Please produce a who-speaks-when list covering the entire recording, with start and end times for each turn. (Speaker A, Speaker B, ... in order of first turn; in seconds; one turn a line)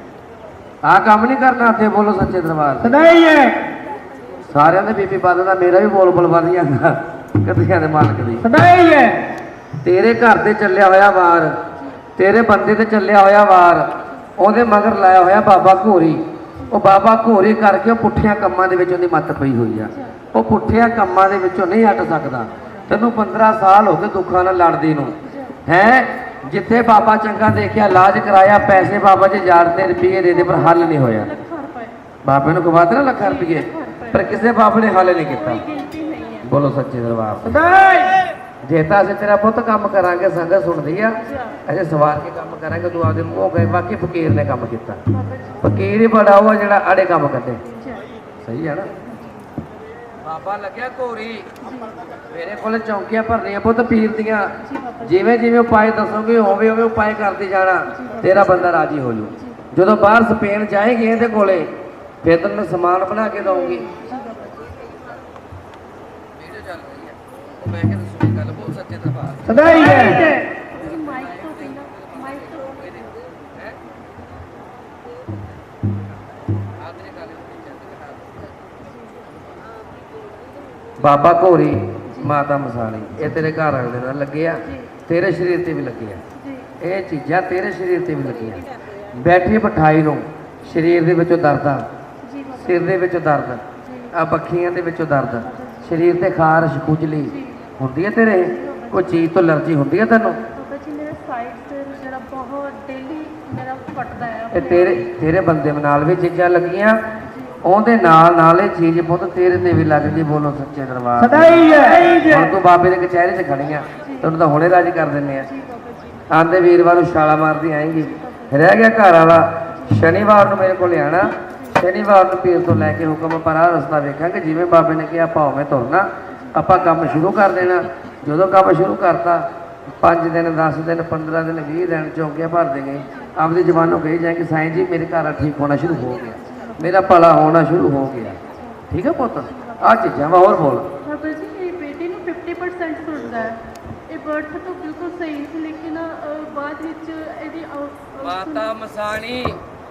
Speaker A: 0.8-3.0
Speaker B: 2.8-3.7
Speaker A: 4.5-8.5
Speaker B: 8.4-9.3
Speaker A: 9.8-11.5
Speaker A: 12.2-31.3
Speaker C: 25.2-25.6
Speaker C: 30.3-31.9
Speaker A: 32.2-35.6
Speaker C: 33.2-34.5
Speaker C: 35.4-36.5
Speaker A: 36.4-37.6
Speaker B: 37.5-38.3
Speaker A: 38.6-45.0
Speaker C: 41.2-41.6
Speaker C: 45.1-45.6
Speaker A: 45.6-47.6
Speaker C: 47.7-48.1
Speaker A: 48.4-49.0
Speaker A: 50.2-51.5
Speaker C: 51.6-51.9
Speaker A: 52.3-54.5
Speaker C: 54.6-55.1
Speaker A: 55.0-63.9
Speaker C: 57.9-58.5
Speaker C: 59.4-59.6
Speaker C: 63.6-64.7
Speaker A: 66.4-73.8
Speaker B: 69.5-70.4
Speaker C: 69.7-73.0
Speaker A: 76.8-78.5
Speaker C: 78.9-79.2
Speaker A: 81.0-86.2
Speaker C: 82.1-82.3
Speaker C: 84.7-84.9
Speaker C: 86.3-86.7
Speaker A: 86.8-91.8
Speaker C: 92.2-92.9
Speaker A: 92.6-100.4
Speaker C: 93.8-94.1
Speaker C: 95.5-96.0
Speaker C: 97.3-97.6
Speaker C: 98.5-99.2
Speaker C: 100.5-105.0
Speaker A: 104.5-107.0
Speaker C: 107.2-107.6
Speaker A: 107.6-115.5
Speaker B: 111.2-112.5
Speaker C: 114.0-114.3
Speaker C: 115.5-116.2
Speaker A: 116.3-138.4
Speaker C: 118.0-118.5
Speaker C: 121.5-121.8
Speaker C: 126.3-126.6
Speaker C: 136.5-137.0
Speaker C: 138.4-138.8
Speaker A: 138.9-140.9
Speaker C: 141.0-148.7
Speaker A: 148.2-149.6